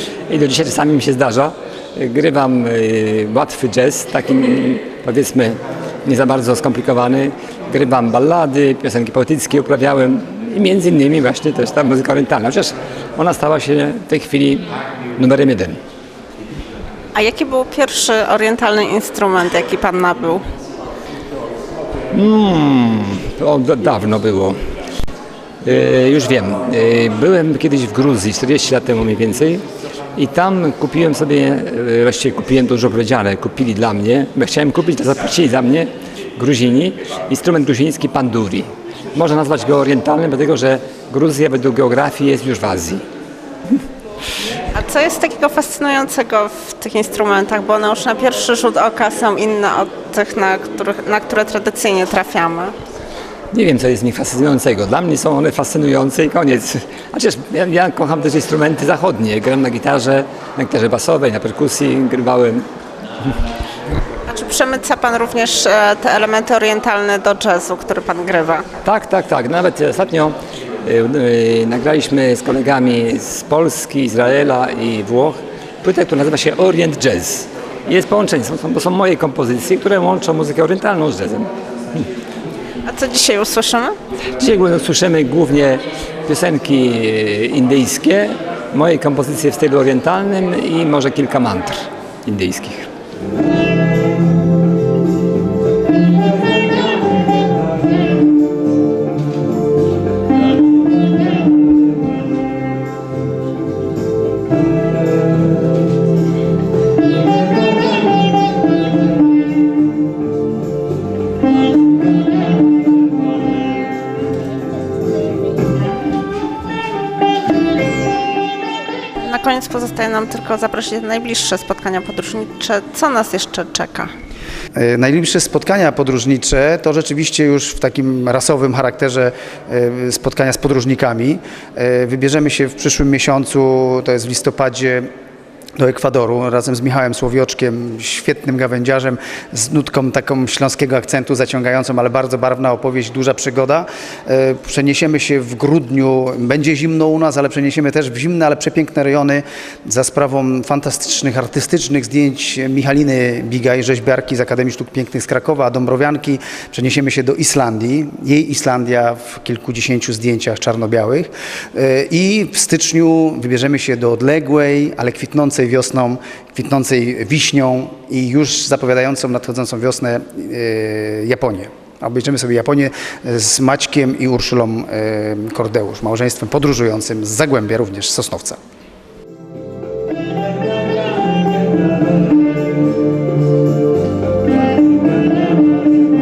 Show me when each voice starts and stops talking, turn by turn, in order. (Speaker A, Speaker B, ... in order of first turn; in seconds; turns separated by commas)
Speaker A: 0.3-15.8, Speaker B: 17.1-20.4, Speaker A: 22.1-24.6, Speaker A: 25.6-29.6, Speaker A: 30.1-43.0, Speaker B: 44.7-52.7, Speaker A: 53.5-62.7, Speaker B: 64.3-68.6, Speaker A: 68.8-82.0, Speaker B: 82.8-84.0, Speaker A: 84.4-92.9, Speaker B: 119.2-124.1, Speaker C: 124.7-135.1, Speaker C: 135.8-178.6